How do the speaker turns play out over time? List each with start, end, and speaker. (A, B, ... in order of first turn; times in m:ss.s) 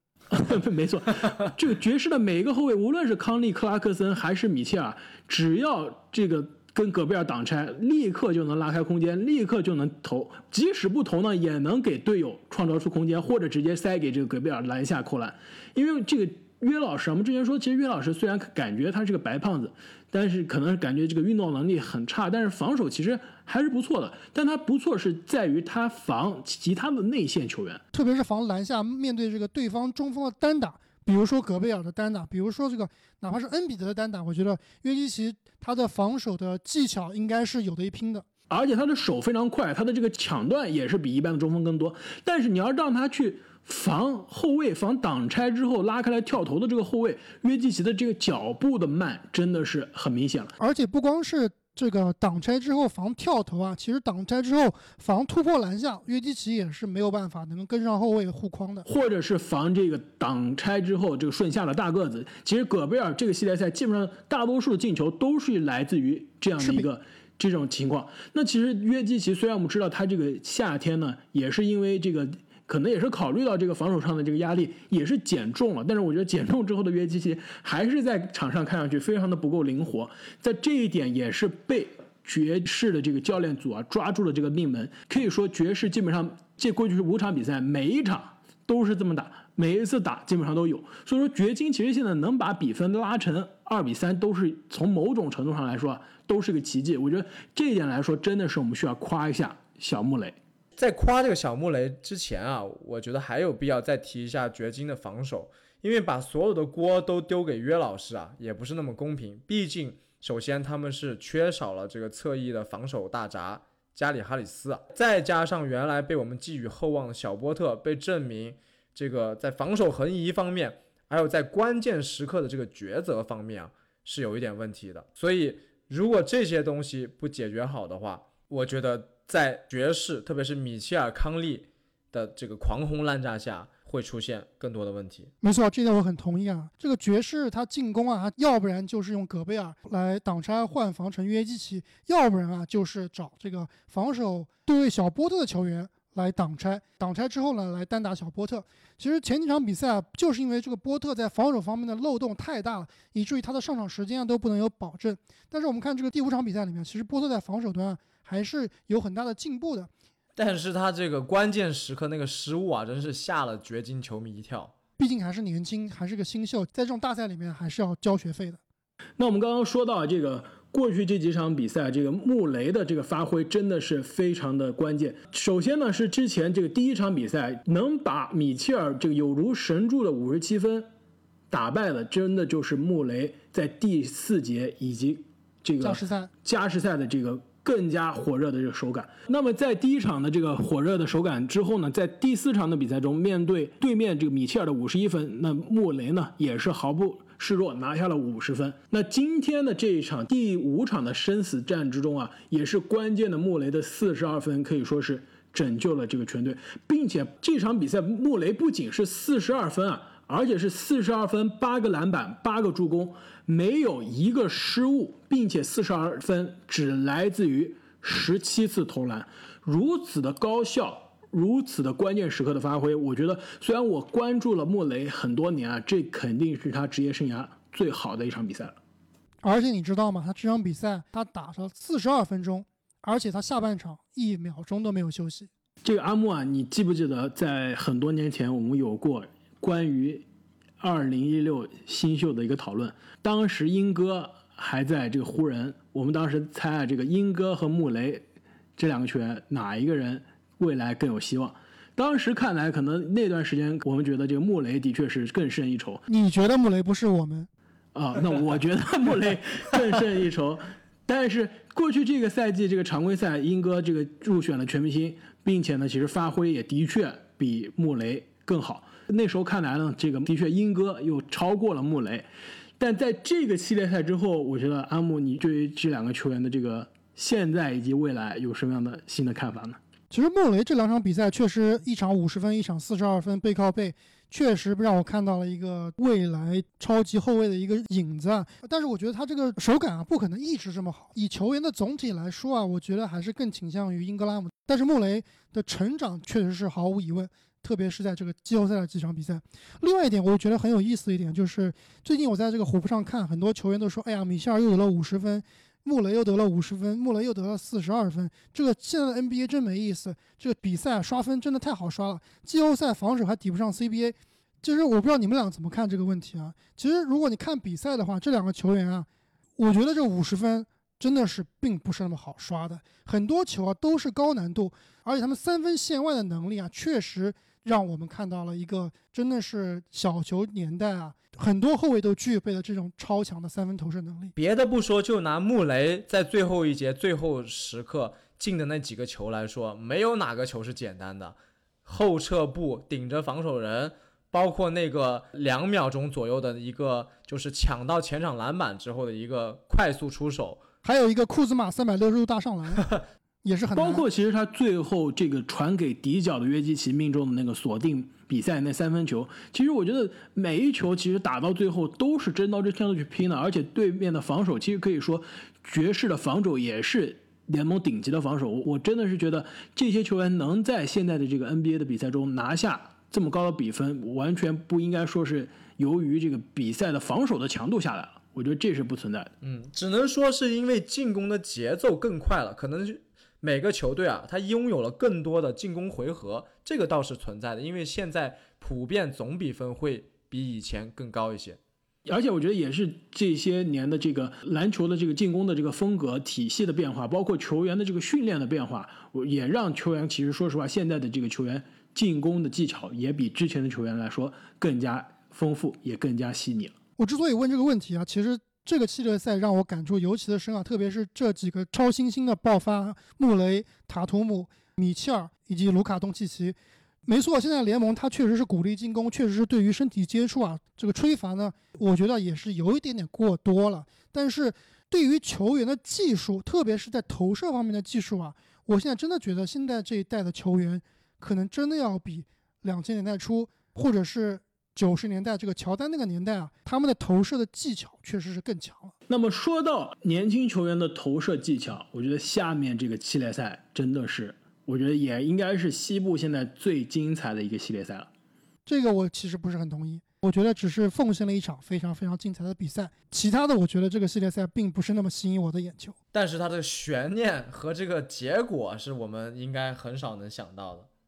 0:00.3-0:27.8 A
0:27.9-0:38.3 B
0:38.5-0:50.5 A
0:50.6-0:58.9 B
0:58.9-1:40.4 A
1:06.6-1:06.9 B
1:40.8-2:15.3 C
2:15.4-2:39.9 B
2:40.4-2:44.7 C
2:45.0-2:48.6 B
2:49.2-3:00.9 A
3:01.5-3:48.8 A
3:05.8-3:06.3 B
3:49.4-3:55.5 B
3:55.8-4:00.2 A
4:00.8-4:08.2 A
4:08.8-4:16.0 A
4:16.1-4:17.5 B
4:17.9-4:32.3 A
4:32.8-4:39.8 A
4:40.1-5:19.1 B
5:19.6-5:34.3 B
5:34.4-5:50.6 C
5:50.8-5:52.9 B
5:53.4-5:54.0 B
5:53.7-6:19.3 A
6:19.4-6:31.6 C
6:32.0-6:46.7 A
6:47.0-7:18.9 B
7:19.1-7:28.1 A
7:28.6-7:36.0 B
7:36.1-7:40.9 C